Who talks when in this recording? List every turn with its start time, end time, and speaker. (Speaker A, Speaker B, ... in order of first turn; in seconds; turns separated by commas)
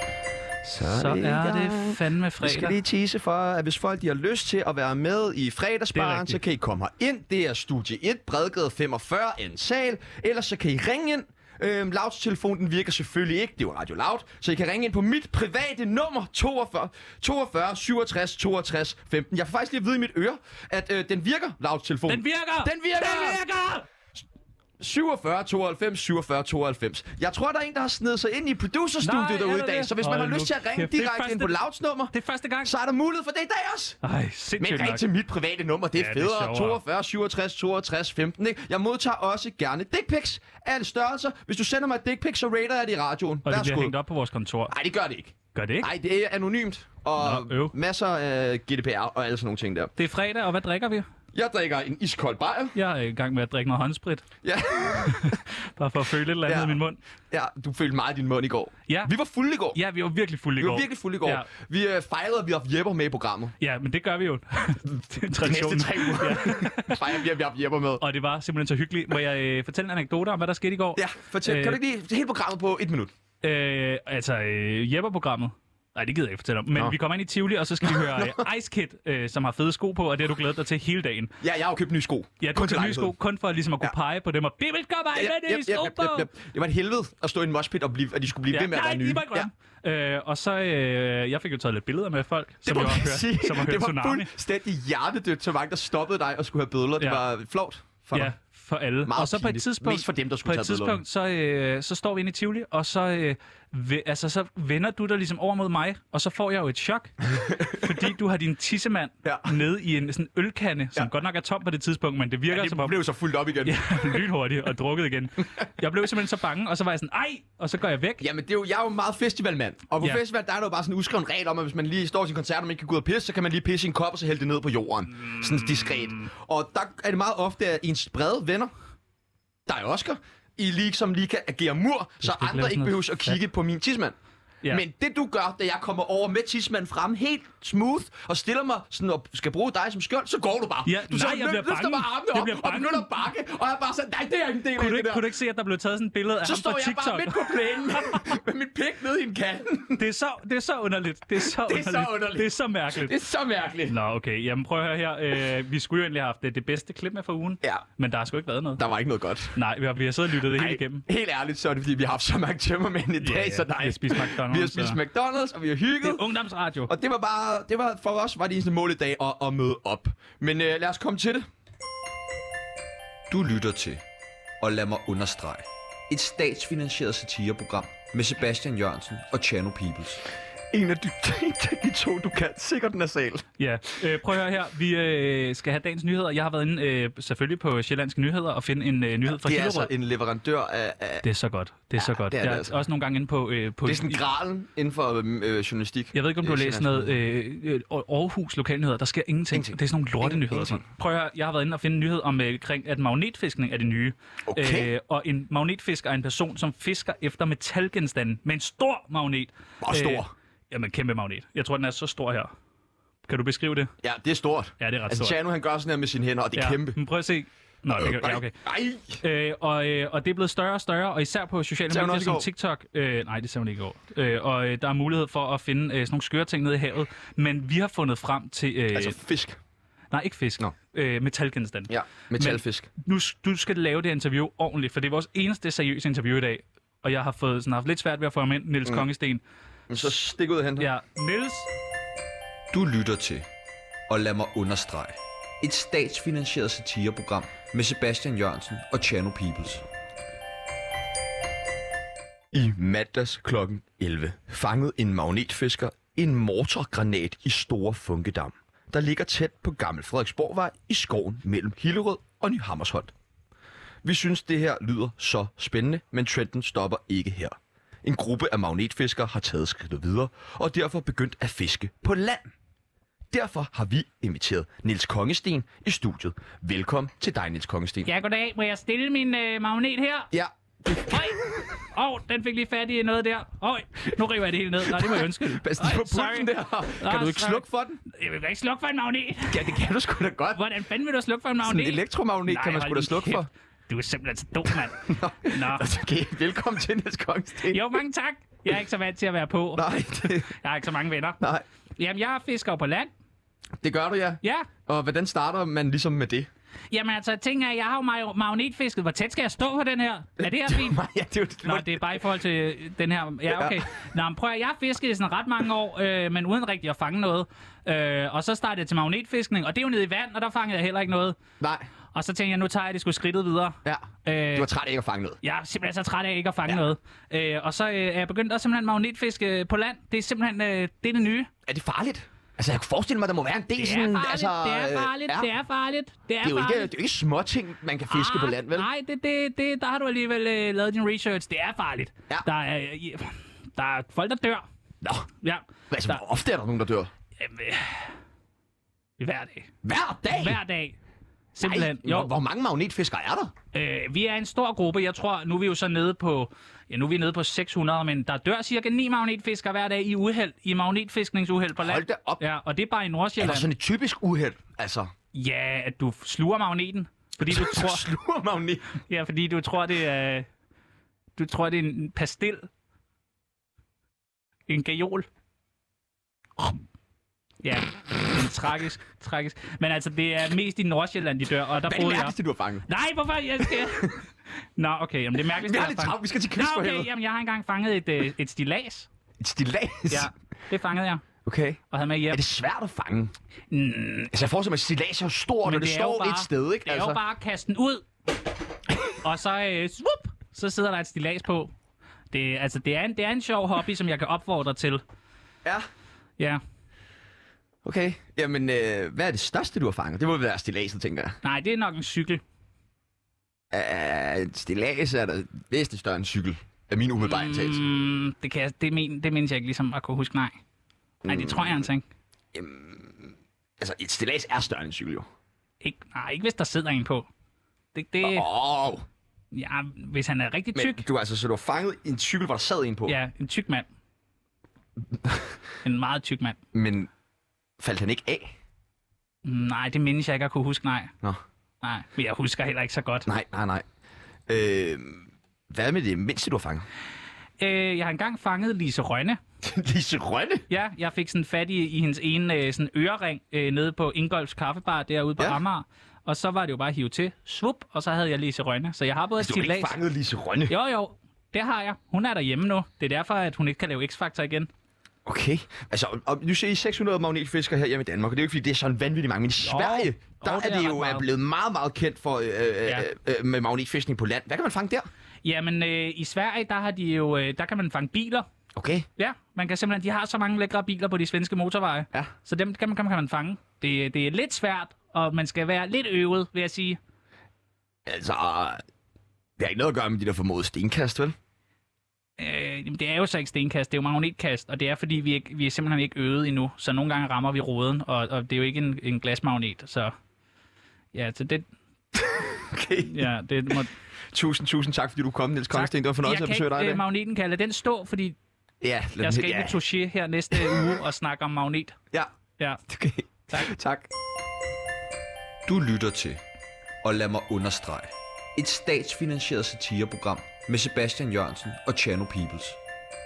Speaker A: 0.6-23.4, Speaker B: 0.8-2.8, Speaker B: 5.9-6.4, Speaker B: 22.1-23.9, Speaker A: 24.8-34.0, Speaker B: 29.0-31.6, Speaker B: 32.1-32.7, Speaker B: 34.0-35.0, Speaker A: 34.6-44.0, Speaker B: 36.0-36.8, Speaker B: 43.5-44.7, Speaker A: 44.7-49.9, Speaker B: 45.5-45.9, Speaker B: 47.2-47.7, Speaker B: 50.0-51.1, Speaker A: 51.3-52.8, Speaker B: 52.7-54.2, Speaker A: 54.4-55.4, Speaker B: 55.0-57.0, Speaker A: 56.5-59.8, Speaker B: 59.7-61.5, Speaker A: 60.6-63.6, Speaker B: 63.6-67.1, Speaker A: 64.9-68.0, Speaker B: 68.0-71.8, Speaker A: 71.0-73.1, Speaker B: 73.4-81.3, Speaker A: 77.8-78.4, Speaker A: 81.4-83.2, Speaker B: 82.4-86.3, Speaker A: 85.1-89.5, Speaker B: 88.5-94.3, Speaker A: 92.7-98.3, Speaker B: 97.0-97.2, Speaker B: 98.1-113.0, Speaker A: 99.0-101.0, Speaker A: 107.3-107.9, Speaker A: 109.2-109.6, Speaker A: 112.5-114.2, Speaker B: 113.6-118.3, Speaker A: 118.2-128.7, Speaker B: 125.2-126.3, Speaker A: 129.7-134.2, Speaker B: 132.2-133.4, Speaker A: 134.7-145.3, Speaker B: 140.9-143.1, Speaker B: 144.8-148.2, Speaker A: 146.4-150.1, Speaker B: 150.0-153.2, Speaker A: 151.4-154.0, Speaker B: 153.9-158.8, Speaker A: 158.8-159.6, Speaker B: 159.6-161.0, Speaker A: 160.4-166.3, Speaker B: 163.2-165.0, Speaker B: 166.0-166.9, Speaker A: 166.9-171.4, Speaker C: 173.3-174.0, Speaker C: 174.6-175.6, Speaker C: 176.1-180.1, Speaker A: 176.4-176.9, Speaker A: 180.7-183.5, Speaker B: 183.6-189.9, Speaker A: 189.2-191.2, Speaker B: 191.2-194.2, Speaker A: 192.0-192.8, Speaker A: 193.8-197.1, Speaker B: 196.1-212.5, Speaker A: 199.5-200.9, Speaker A: 204.5-204.9, Speaker A: 209.8-210.3, Speaker B: 213.3-213.9, Speaker A: 214.0-217.0, Speaker B: 214.8-215.4, Speaker B: 216.6-218.6, Speaker A: 218.0-219.2, Speaker B: 219.2-229.2, Speaker A: 221.9-222.5, Speaker A: 228.9-229.6, Speaker B: 230.1-239.4, Speaker A: 231.9-232.9, Speaker A: 239.9-240.9, Speaker B: 240.8-241.7, Speaker C: 242.7-243.4, Speaker C: 244.1-245.1, Speaker C: 245.6-249.8, Speaker A: 245.9-246.3, Speaker A: 247.7-248.2, Speaker A: 252.5-263.1, Speaker A: 264.0-272.5, Speaker A: 273.3-278.1, Speaker B: 278.1-280.3, Speaker A: 280.3-281.3, Speaker B: 280.9-289.8, Speaker A: 284.8-288.0, Speaker A: 289.5-290.6, Speaker B: 290.5-295.9, Speaker A: 291.6-293.5, Speaker A: 295.0-298.0, Speaker B: 297.6-301.4, Speaker A: 299.8-300.5, Speaker A: 301.4-301.6, Speaker B: 302.0-303.1, Speaker A: 303.8-306.5, Speaker B: 304.4-304.7, Speaker B: 306.9-311.0, Speaker A: 310.4-312.2, Speaker B: 311.6-321.4, Speaker A: 313.5-313.8, Speaker A: 321.6-321.9, Speaker B: 322.1-324.7, Speaker A: 323.9-325.4, Speaker B: 325.4-331.5, Speaker A: 331.7-335.5, Speaker B: 333.8-336.9, Speaker A: 336.4-338.9, Speaker B: 338.1-344.7, Speaker A: 345.0-345.3, Speaker B: 345.4-346.2, Speaker A: 345.9-347.1, Speaker B: 347.4-348.1, Speaker B: 349.2-349.7, Speaker A: 349.8-350.6, Speaker B: 350.3-351.0, Speaker B: 351.5-352.3, Speaker A: 351.6-353.5, Speaker B: 353.7-363.7, Speaker A: 361.8-362.4, Speaker A: 363.4-365.1, Speaker B: 365.3-368.1, Speaker A: 367.4-368.9, Speaker B: 369.1-370.5, Speaker B: 371.4-372.7, Speaker B: 374.7-375.3, Speaker B: 377.6-384.2, Speaker A: 381.9-382.9, Speaker A: 383.6-384.1, Speaker B: 384.8-389.1, Speaker A: 385.5-387.1, Speaker A: 389.4-390.3, Speaker B: 390.1-391.2, Speaker A: 391.4-393.3, Speaker B: 391.9-392.4, Speaker B: 393.7-394.3, Speaker A: 394.3-397.2, Speaker B: 395.6-398.1, Speaker B: 399.1-401.7, Speaker B: 402.3-405.0, Speaker A: 407.8-411.4, Speaker B: 411.4-412.4, Speaker A: 413.7-417.8, Speaker B: 417.2-420.6, Speaker A: 421.2-421.9, Speaker B: 421.3-422.1, Speaker A: 422.5-425.3, Speaker B: 425.8-427.3, Speaker B: 427.9-428.5, Speaker A: 428.2-429.1, Speaker B: 429.5-431.0, Speaker A: 430.7-433.2, Speaker B: 433.1-433.9, Speaker A: 435.1-435.5, Speaker B: 435.8-436.6, Speaker A: 436.7-437.1, Speaker A: 437.8-438.5, Speaker B: 439.4-441.1, Speaker B: 441.8-443.3, Speaker A: 443.3-443.9, Speaker A: 444.5-446.9, Speaker B: 447.6-449.4, Speaker A: 449.6-450.6, Speaker B: 450.7-460.0, Speaker A: 459.4-460.7, Speaker B: 460.7-464.7, Speaker A: 465.3-475.1, Speaker B: 469.6-471.2, Speaker B: 475.4-478.5, Speaker A: 478.8-479.1, Speaker B: 479.2-487.0, Speaker A: 488.1-488.8, Speaker A: 489.6-491.4, Speaker B: 492.4-500.1, Speaker B: 501.1-501.7, Speaker A: 502.1-503.8, Speaker B: 503.0-503.9, Speaker A: 504.3-507.0, Speaker B: 505.7-508.4, Speaker A: 508.8-509.8, Speaker B: 509.2-512.0, Speaker A: 510.5-510.9, Speaker A: 512.9-514.1, Speaker A: 515.7-516.3, Speaker A: 517.0-518.0, Speaker A: 518.6-522.7